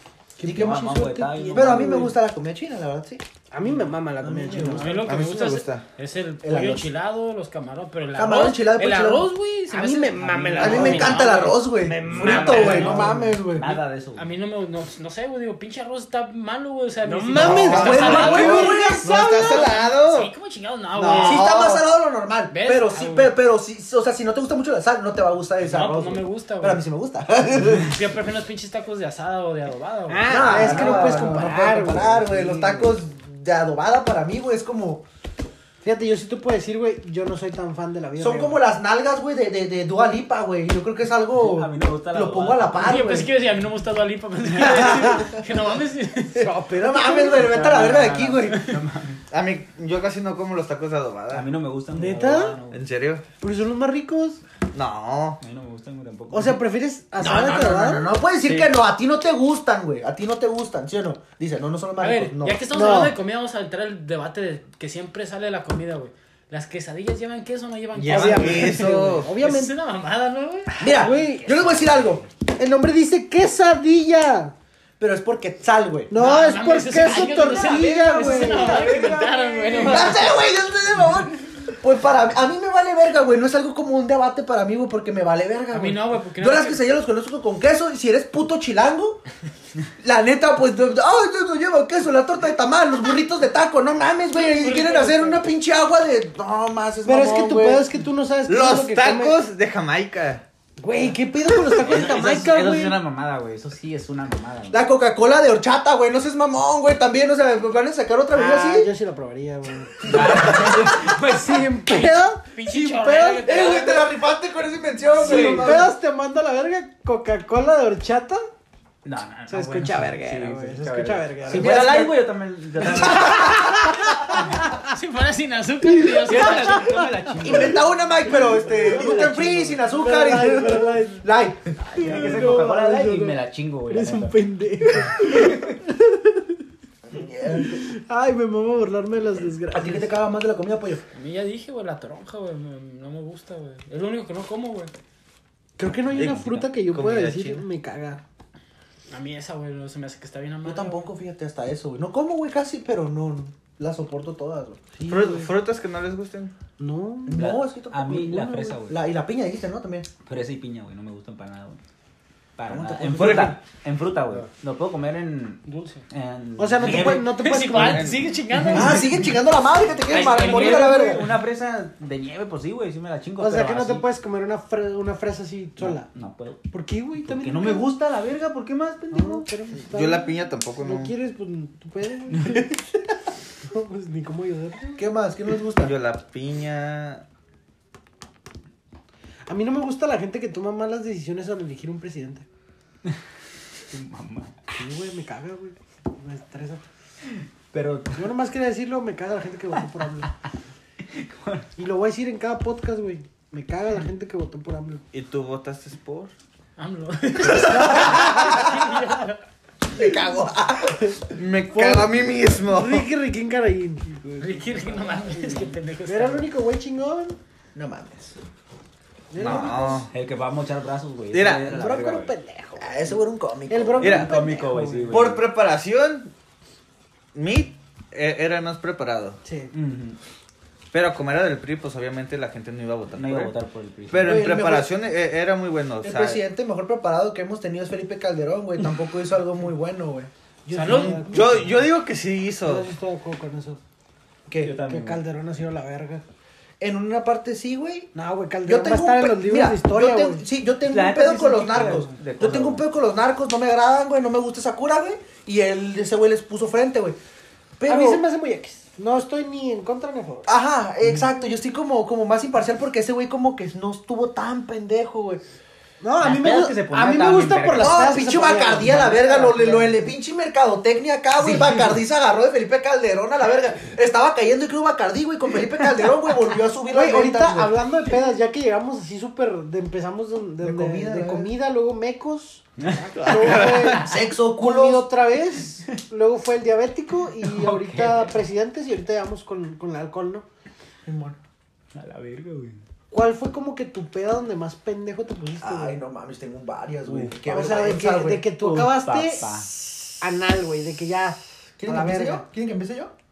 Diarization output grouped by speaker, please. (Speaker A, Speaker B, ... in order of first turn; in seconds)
Speaker A: 0.4-2.2, 3.5-5.1, 9.7-13.6, 17.0-19.7, 21.0-21.4, 30.1-33.0, 35.8-38.6, 44.9-45.2, 46.4-47.7, 51.9-52.6, 53.4-54.4, 56.3-58.1, 62.7-63.2, 68.1-69.7, 70.9-71.6, 72.6-74.5, 76.1-79.1, 97.0-99.4, 100.8-103.0, 108.3-113.8, 115.2-118.4, 119.5-122.1, 122.8-124.8, 126.0-126.8, 128.3-131.2, 131.9-136.6, 137.5-140.1, 145.8-148.2, 154.9-155.5, 156.8-157.5, 158.1-158.8, 166.6-168.1, 173.4-176.1, 176.7-177.9, 179.1-182.8, 183.6-185.1, 189.5-192.5, 194.7-196.8, 198.1-200.3, 201.8-205.0, 207.6-208.6, 211.7-214.1, 216.1-217.4, 219.3-220.1, 221.7-225.3, 229.4-229.7, 234.2-234.7, 240.7-241.8, 242.6-243.8, 244.8-246.2, 248.1-250.4, 257.9-260.5, 266.0-270.1, 276.9-290.4, 293.1-296.0, 297.4-302.5
Speaker B: 0.4-0.9, 1.5-3.2, 4.2-5.0, 6.4-6.9, 8.2-9.3, 10.6-13.8, 17.4-20.3, 21.0-28.0, 30.3-35.0, 38.2-43.3, 44.6-45.2, 46.4-48.7, 57.2-62.6, 70.8-72.2, 75.0-76.1, 79.8-89.2, 90.0-97.9, 104.7-108.9, 110.0-110.9, 113.4-115.9, 121.5-123.9, 127.4-131.8, 137.1-137.8, 139.7-141.0, 150.6-154.8, 157.3-160.1, 162.7-163.6, 168.7-171.4, 185.0-185.9, 207.4-208.8, 209.9-211.2, 217.8-218.4, 222.8-224.3, 234.3-234.9, 236.0-240.3, 244.5-244.8, 246.8-248.1, 248.7-257.2, 257.8-258.2, 260.5-265.4, 267.8-277.8, 280.6-281.5, 283.4-285.1, 291.1-291.4, 295.6-298.6, 301.8-303.1
Speaker C: 0.5-2.0, 10.3-11.0, 12.1-14.3, 30.4-31.4, 41.4-43.0, 47.4-49.2, 51.3-52.8, 55.4-56.6, 71.6-72.2, 77.2-80.4, 101.8-104.8, 110.0-111.7, 115.2-115.8, 119.0-123.7, 124.3-124.7, 126.3-127.9, 129.1-129.4, 131.8-134.4, 135.0-135.8, 146.0-146.6, 157.3-159.0, 160.2-161.8, 162.6-167.4, 170.1-174.1, 175.8-176.6, 177.2-179.5, 182.4-182.6, 193.9-194.6, 197.3-198.3, 201.0-201.7, 214.1-215.8, 220.1-222.3, 224.0-225.4, 229.7-230.2, 233.2-234.5, 244.6-245.2, 250.9-252.8, 266.2-268.1, 282.8-283.8, 287.4-288.3, 291.9-292.8, 297.0-297.7, 298.6-299.7
Speaker D: 4.6-13.2, 14.2-21.8, 22.5-23.3, 25.6-26.8, 27.8-30.7, 42.7-46.5, 62.0-70.8, 76.1-80.4, 85.7-86.8, 94.3-95.5, 112.6-114.1, 115.2-115.6, 124.8-127.1, 141.1-144.9, 149.1-151.1, 165.7-166.1, 166.8-169.3, 170.1-171.0, 206.8-209.4, 214.4-216.5, 240.7-241.2, 267.1-267.7
Speaker E: 5.0-5.8, 17.5-18.0, 19.1-19.4, 49.3-51.5, 52.7-53.2, 54.7-55.4, 68.0-69.3, 98.5-100.4, 146.1-147.7, 155.1-156.5, 163.2-163.5, 167.8-168.3, 179.9-181.1, 185.8-187.2, 205.1-206.3, 211.3-213.1, 219.4-220.1, 221.3-221.8, 224.0-224.3, 225.1-226.3, 227.3-229.4, 230.9-233.6, 234.1-236.4, 240.8-242.9